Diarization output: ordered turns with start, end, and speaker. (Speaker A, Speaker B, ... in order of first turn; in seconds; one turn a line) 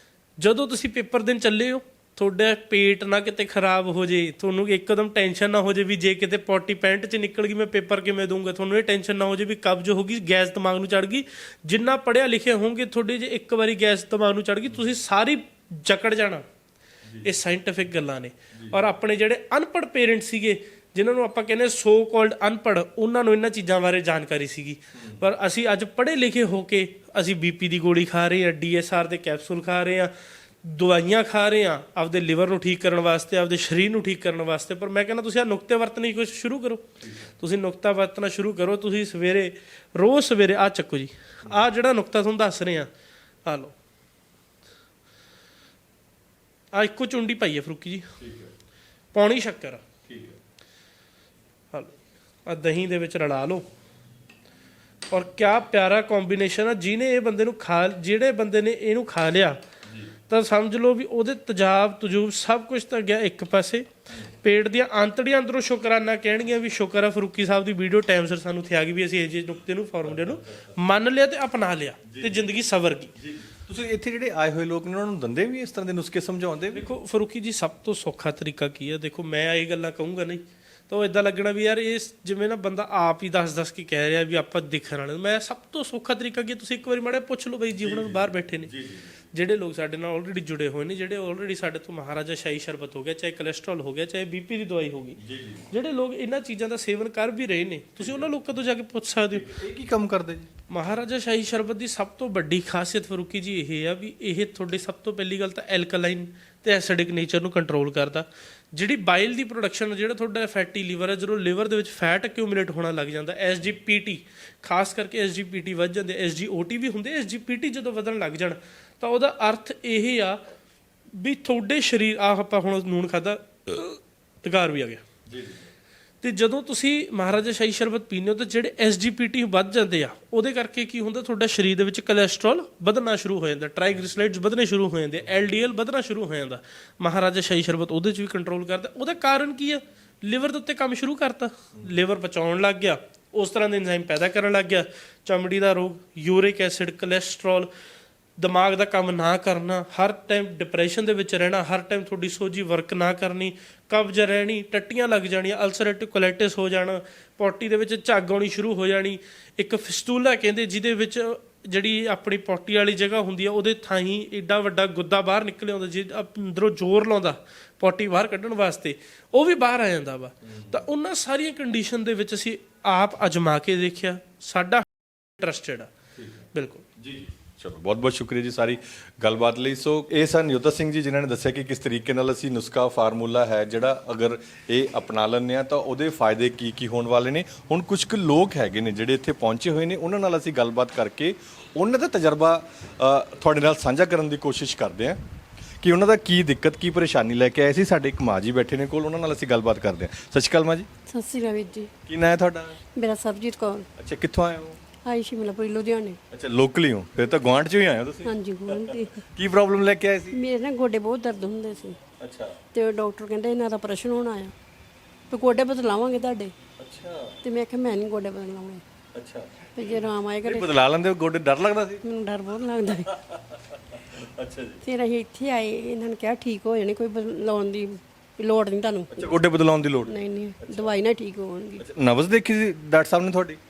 Speaker A: 0.4-16.4
Speaker A: 17.2-30.1
Speaker B: 18.5-18.8
Speaker B: 24.9-25.2
Speaker A: 30.6-36.9
Speaker B: 37.0-37.3
Speaker A: 37.4-42.9
Speaker A: 43.4-43.7
Speaker A: 46.7-48.1
Speaker B: 48.2-48.5
Speaker A: 49.1-49.8
Speaker B: 50.1-50.4
Speaker A: 52.5-53.6
Speaker A: 55.1-59.6
Speaker A: 60.3-63.9
Speaker A: 64.4-73.1
Speaker B: 72.1-72.4
Speaker B: 73.2-76.9
Speaker A: 76.7-88.7
Speaker B: 87.8-89.2
Speaker A: 89.3-95.2
Speaker B: 95.2-95.7
Speaker A: 95.7-99.5
Speaker B: 98.0-98.3
Speaker B: 99.3-100.5
Speaker A: 100.7-120.4
Speaker A: 121.2-125.0
Speaker B: 125.3-125.7
Speaker A: 126.2-147.7
Speaker A: 148.4-174.8
Speaker B: 170.5-170.8
Speaker A: 175.4-175.9
Speaker B: 176.2-195.2
Speaker A: 176.5-176.8
Speaker B: 195.8-200.9
Speaker C: 201.1-201.9
Speaker B: 202.1-202.8
Speaker C: 202.9-203.9
Speaker B: 204.0-204.8
Speaker C: 205.0-206.2
Speaker B: 206.3-210.4
Speaker C: 208.2-209.2
Speaker C: 210.3-212.0
Speaker B: 212.2-212.6
Speaker C: 212.7-214.5
Speaker C: 215.3-216.5
Speaker B: 216.8-217.3
Speaker C: 217.4-218.8
Speaker B: 219.1-222.0
Speaker C: 219.7-220.8
Speaker C: 222.0-223.2
Speaker B: 224.1-224.8
Speaker C: 224.8-229.3
Speaker B: 229.1-231.0
Speaker C: 230.0-231.8
Speaker B: 231.8-233.6